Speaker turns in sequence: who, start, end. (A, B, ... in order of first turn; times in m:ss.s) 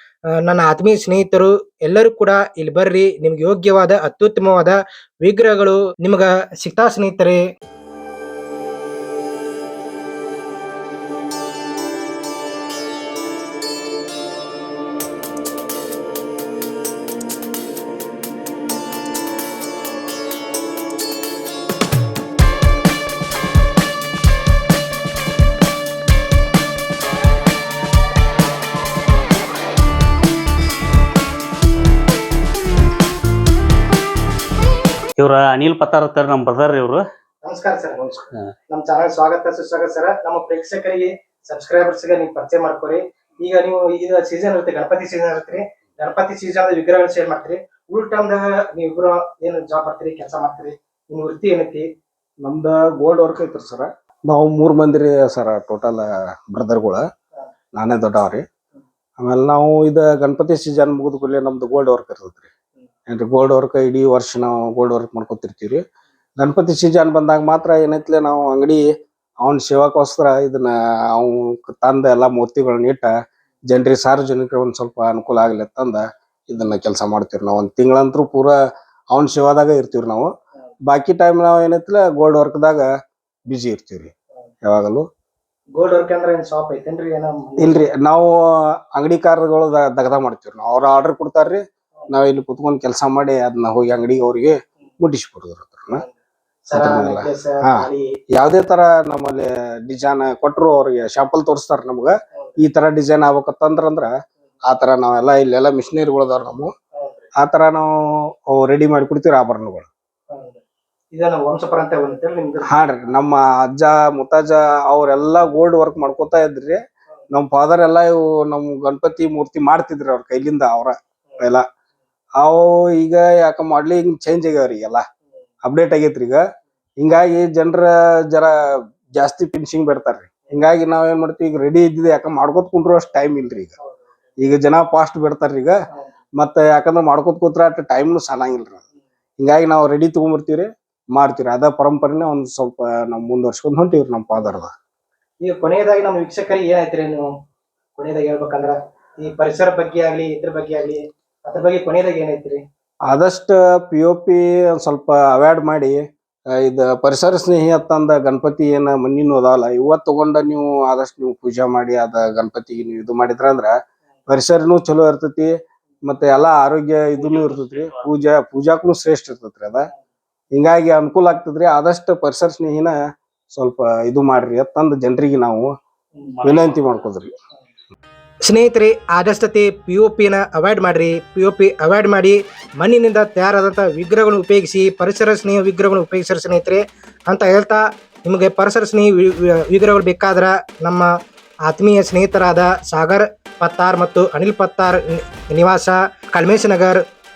0:00.4-0:07.4 A
0:35.2-0:37.0 B
0:37.4-0:38.2 A
0:38.1-0:38.5 B
0:38.7-0:51.9 A
0:52.4-0:57.0 C
0:57.7-0:58.4 C
0:59.2-1:02.5 C
1:03.1-1:05.8 C
1:06.4-1:08.8 C
1:09.4-1:13.1 C
1:13.7-1:18.6 C
1:19.1-1:20.3 C
1:20.9-1:22.9 C
1:23.5-1:24.1 C
1:24.6-1:25.0 C
1:25.8-1:27.9 A
1:27.6-1:28.4 C
1:28.9-1:36.0 C
1:36.7-1:38.1 A
1:36.7-1:44.1 C
1:44.7-1:46.7 C
1:47.0-1:47.3 A
1:47.4-1:49.9 C
1:50.3-1:50.6 A
1:51.1-1:52.8 A
1:52.7-2:01.6 C
2:02.4-2:05.0 C
2:05.6-2:06.4 C
2:07.0-2:08.6 C
2:09.2-2:13.8 C
2:14.4-2:15.8 C
2:16.4-2:18.8 C
2:19.4-2:24.7 C
2:25.4-2:27.4 A
2:28.0-2:32.6 A
2:33.1-2:43.8 C
2:44.3-2:49.9 C
2:47.2-2:48.1 B
2:50.5-2:53.0 C
2:53.5-2:55.7 C
2:56.3-2:56.8 B
2:56.4-2:57.3 C
2:58.5-3:11.1 A
3:11.6-3:17.0 A